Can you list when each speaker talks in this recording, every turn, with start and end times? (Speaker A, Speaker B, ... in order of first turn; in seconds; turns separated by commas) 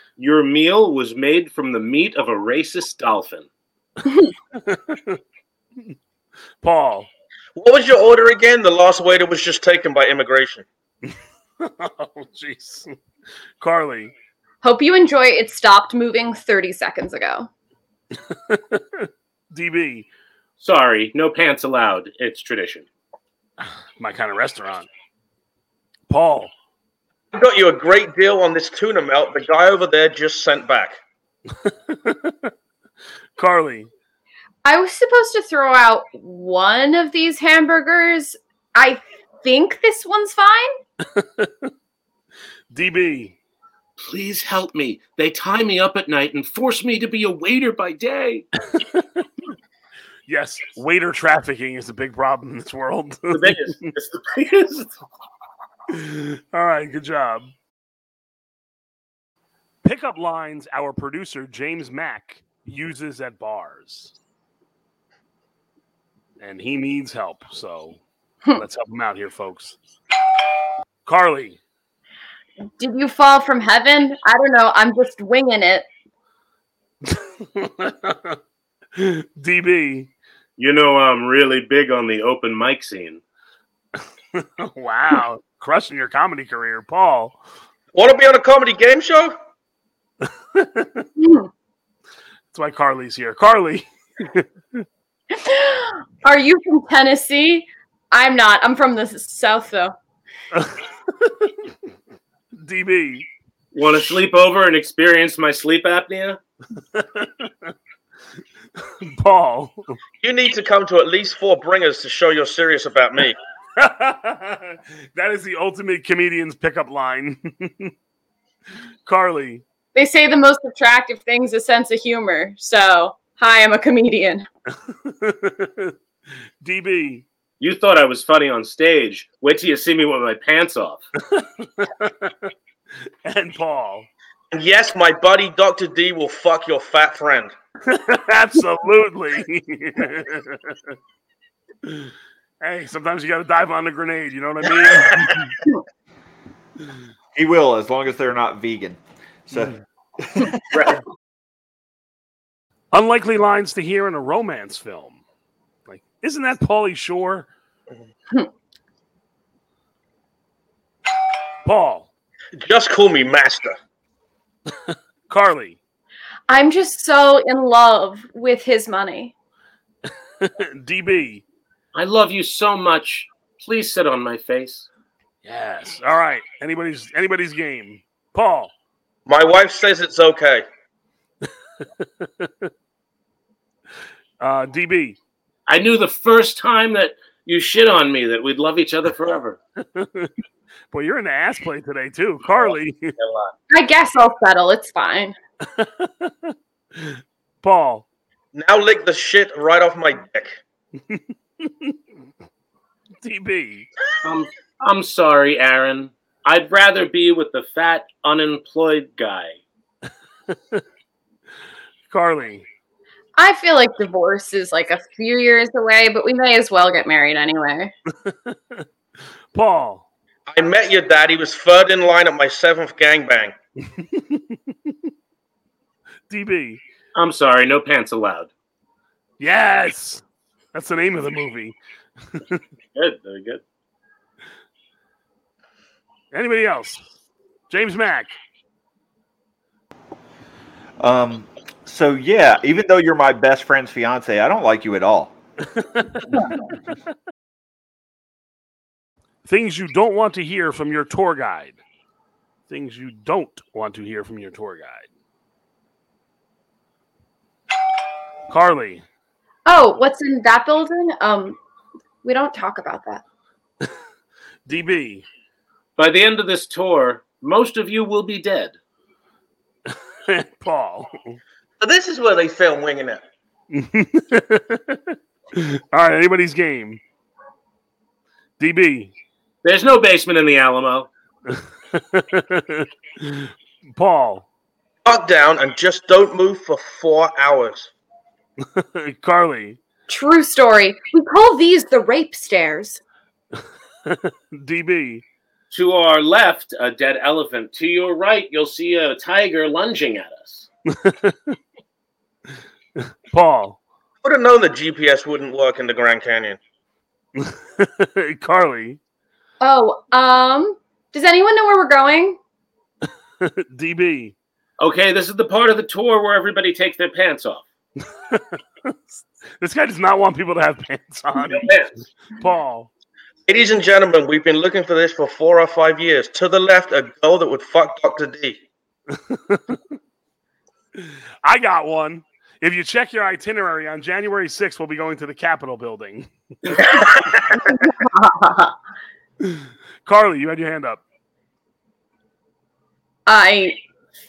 Speaker A: 0.2-3.5, Speaker B: 4.0-4.3, Speaker C: 4.5-5.2, Speaker C: 6.6-7.1, Speaker D: 7.6-10.7, Speaker C: 11.1-12.9, Speaker C: 13.6-14.1, Speaker B: 14.6-17.5, Speaker C: 18.2-20.1, Speaker A: 20.6-22.9, Speaker C: 24.0-24.9, Speaker C: 26.1-26.5, Speaker D: 27.3-31.0, Speaker C: 31.5-32.5, Speaker C: 33.4-33.9, Speaker B: 34.6-40.7, Speaker C: 41.1-41.7, Speaker C: 42.7-43.3, Speaker A: 44.0-48.5, Speaker C: 48.6-49.3, Speaker C: 50.3-53.5, Speaker A: 53.3-54.9, Speaker C: 55.9-57.5, Speaker C: 59.8-64.1, Speaker C: 66.4-68.0, Speaker C: 68.6-69.8, Speaker C: 71.1-71.6, Speaker B: 72.8-75.9, Speaker C: 77.0-78.4, Speaker C: 78.9-80.1, Speaker A: 80.6-83.2, Speaker C: 84.3-87.4, Speaker D: 87.9-89.3, Speaker C: 90.2-91.1, Speaker B: 91.2-91.5, Speaker C: 92.5-94.8, Speaker B: 95.3-99.9, Speaker C: 100.5-101.7, Speaker C: 102.6-103.3, Speaker A: 103.7-106.4, Speaker C: 106.8-107.7, Speaker C: 108.8-110.0, Speaker D: 110.2-113.4, Speaker C: 113.8-117.9, Speaker C: 119.1-119.6, Speaker B: 119.9-124.5, Speaker C: 124.9-125.9, Speaker C: 126.6-127.2, Speaker A: 127.6-131.1, Speaker C: 131.2-132.5, Speaker C: 133.2-134.1, Speaker D: 134.5-137.5, Speaker C: 137.9-140.9, Speaker C: 141.8-145.6, Speaker E: 147.3-150.9, Speaker A: 150.7-151.0, Speaker C: 152.9-155.2, Speaker C: 155.9-157.5, Speaker C: 161.6-162.1, Speaker D: 162.6-163.8, Speaker C: 164.7-165.8, Speaker B: 166.5-169.3, Speaker C: 170.4-171.4, Speaker A: 171.9-174.9, Speaker C: 175.4-178.7, Speaker D: 179.2-180.6, Speaker C: 181.5-182.7, Speaker C: 184.4-185.2, Speaker A: 185.7-189.6, Speaker C: 189.8-190.3, Speaker C: 190.9-193.2, Speaker A: 192.4-193.5, Speaker B: 193.7-195.3, Speaker C: 195.7-198.1, Speaker D: 198.5-200.6, Speaker C: 201.1-201.9, Speaker C: 203.2-203.9, Speaker A: 204.2-209.6, Speaker C: 210.5-210.8, Speaker C: 212.1-212.7, Speaker B: 213.3-217.9, Speaker C: 218.1-218.8, Speaker C: 219.5-220.1, Speaker D: 220.5-223.5, Speaker C: 223.8-225.1, Speaker C: 226.3-226.8, Speaker A: 227.2-228.5, Speaker C: 229.4-232.6, Speaker A: 232.9-233.6, Speaker C: 236.3-237.0, Speaker C: 237.7-238.4, Speaker E: 241.0-245.3, Speaker C: 245.8-246.6, Speaker C: 249.4-251.8, Speaker C: 252.7-255.1, Speaker C: 258.5-259.1, Speaker B: 259.7-261.6, Speaker B: 262.2-263.2, Speaker C: 264.7-265.3, Speaker A: 266.0-268.7, Speaker C: 269.9-271.4, Speaker D: 271.8-273.2, Speaker C: 273.7-277.0, Speaker C: 278.6-279.1, Speaker A: 279.6-281.1, Speaker C: 281.5-284.5, Speaker D: 285.1-287.9, Speaker C: 288.6-289.8, Speaker B: 290.1-293.0, Speaker C: 293.6-295.2, Speaker A: 295.7-300.7, Speaker C: 300.9-301.6, Speaker C: 302.9-303.8, Speaker D: 304.2-306.6, Speaker C: 307.4-309.0, Speaker B: 309.6-312.4, Speaker C: 313.4-314.3, Speaker A: 314.8-317.7, Speaker C: 318.0-319.0, Speaker C: 319.6-321.7, Speaker A: 321.4-322.0, Speaker C: 322.3-322.9, Speaker D: 323.5-328.6, Speaker C: 329.1-329.9, Speaker C: 330.9-336.8, Speaker B: 337.5-338.7, Speaker C: 339.4-341.0, Speaker B: 343.2-343.8